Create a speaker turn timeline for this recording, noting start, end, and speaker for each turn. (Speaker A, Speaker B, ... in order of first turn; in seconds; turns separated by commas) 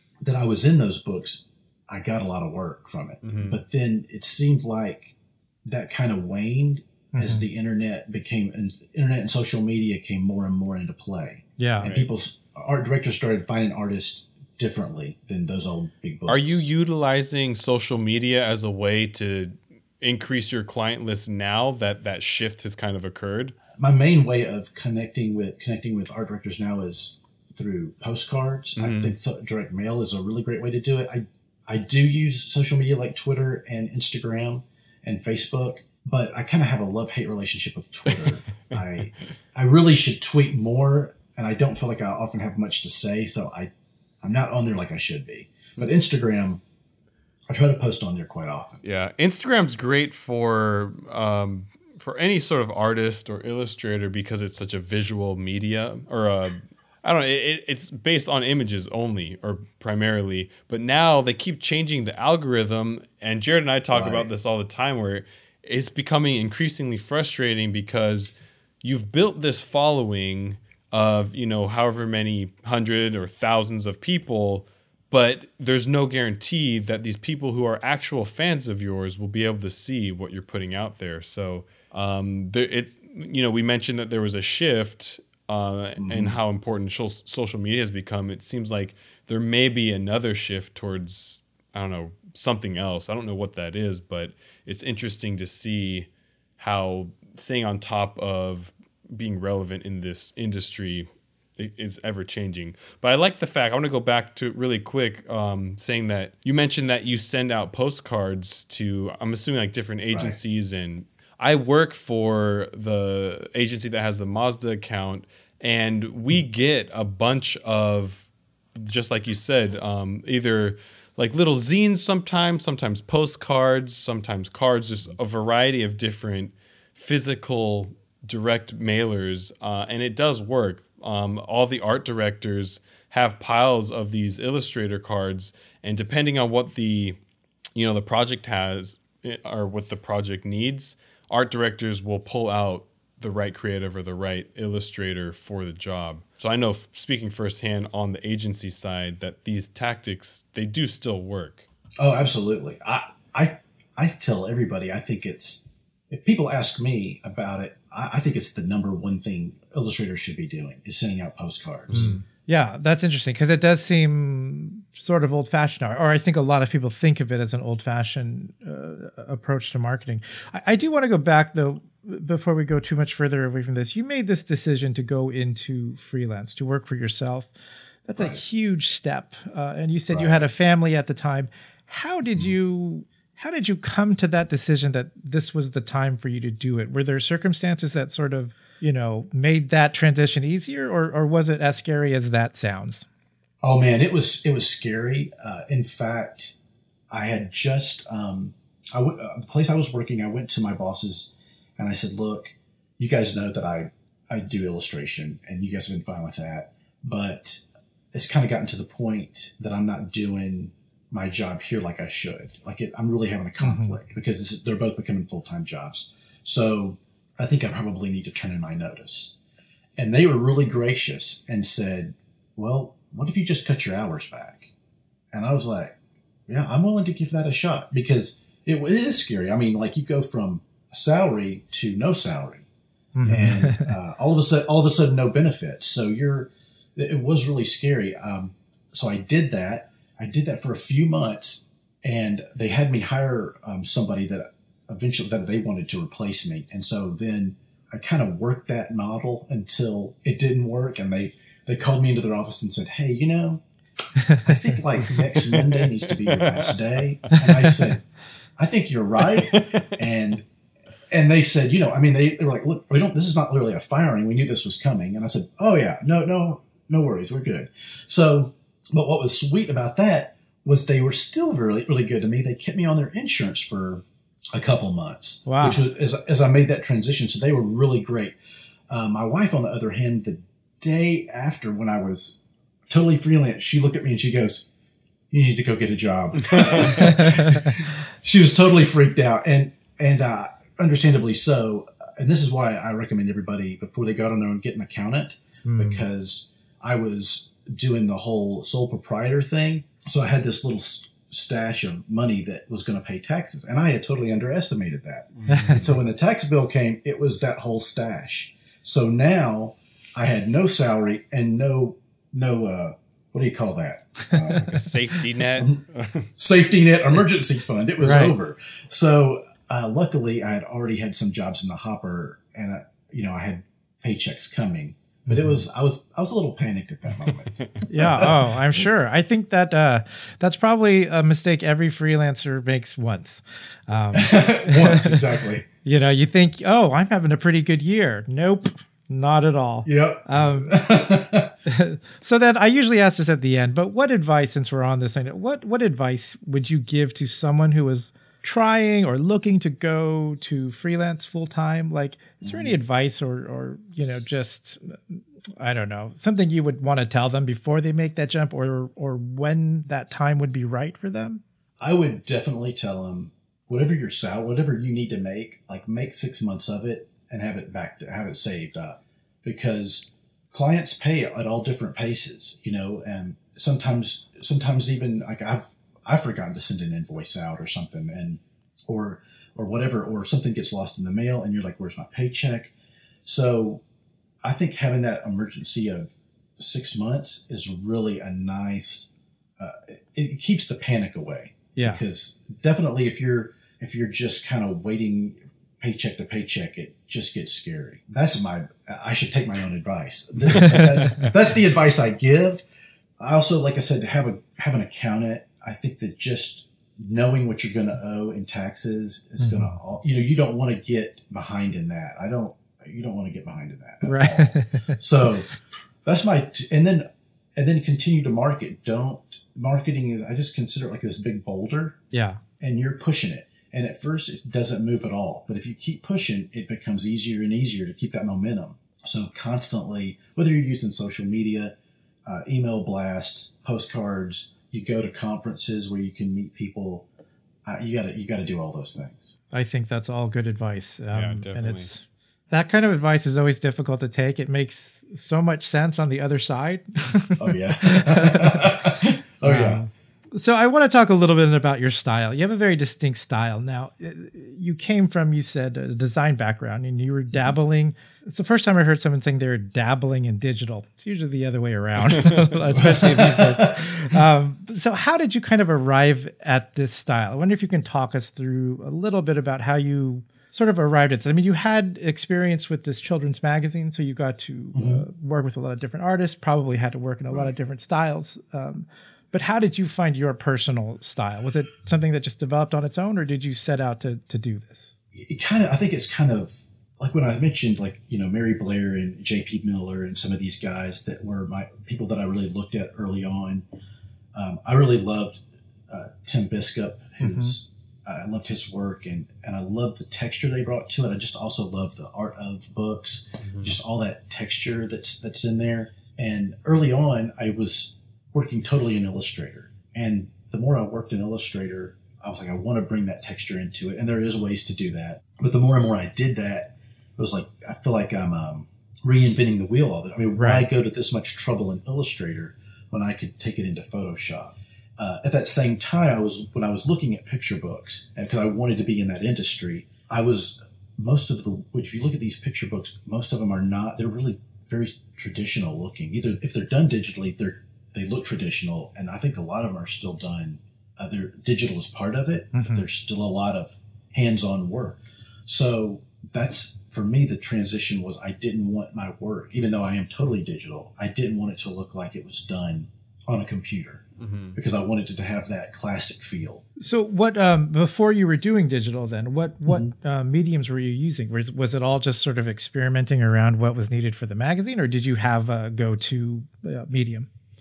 Speaker A: 0.2-5.1, Speaker B: 3.2-3.6, Speaker A: 5.6-16.6, Speaker C: 7.1-7.5, Speaker C: 11.6-11.9, Speaker B: 16.3-23.6, Speaker A: 23.8-43.7, Speaker B: 28.8-29.1, Speaker A: 44.2-46.6, Speaker A: 47.5-48.8, Speaker B: 48.8-137.2, Speaker A: 63.9-64.3, Speaker A: 86.0-86.4, Speaker A: 110.1-110.4, Speaker B: 137.8-151.7, Speaker A: 152.0-162.2, Speaker B: 161.9-162.2, Speaker C: 162.5-177.5, Speaker C: 178.1-193.1, Speaker A: 180.1-180.4, Speaker A: 193.6-196.6, Speaker A: 197.1-219.4, Speaker C: 213.6-214.0, Speaker A: 220.0-224.7, Speaker A: 225.3-226.0, Speaker A: 226.5-232.7, Speaker C: 233.1-233.9, Speaker A: 233.2-253.6, Speaker A: 254.4-258.0, Speaker B: 255.1-256.8, Speaker A: 258.6-260.4, Speaker B: 259.5-259.9, Speaker A: 261.1-278.4, Speaker C: 275.5-275.8, Speaker A: 278.9-284.7, Speaker A: 285.3-314.9, Speaker B: 286.5-287.1, Speaker C: 287.0-287.7, Speaker C: 295.6-296.0, Speaker B: 305.4-305.9, Speaker C: 305.5-305.8, Speaker B: 314.6-316.3, Speaker A: 316.4-328.9, Speaker C: 318.0-318.4, Speaker C: 327.9-335.2, Speaker A: 334.1-335.6, Speaker C: 335.8-340.8, Speaker A: 339.9-341.5, Speaker C: 341.6-361.4, Speaker A: 352.4-352.8, Speaker A: 361.8-382.7, Speaker A: 383.2-383.8, Speaker A: 384.4-402.6, Speaker C: 391.8-392.0, Speaker B: 400.6-401.2, Speaker A: 403.2-415.5, Speaker C: 409.4-409.7, Speaker C: 414.0-415.0, Speaker A: 416.0-422.0, Speaker C: 422.1-422.4, Speaker A: 422.6-437.1, Speaker A: 437.6-439.4, Speaker C: 439.5-448.8, Speaker B: 441.1-441.9, Speaker A: 447.4-449.8, Speaker C: 449.4-484.9, Speaker A: 462.7-464.2, Speaker A: 474.7-475.1, Speaker A: 485.1-493.6, Speaker A: 494.3-556.6, Speaker C: 497.2-497.6, Speaker B: 503.4-503.7, Speaker C: 520.4-520.7, Speaker C: 542.5-542.9, Speaker B: 554.2-554.6, Speaker C: 556.8-567.3, Speaker A: 559.7-559.9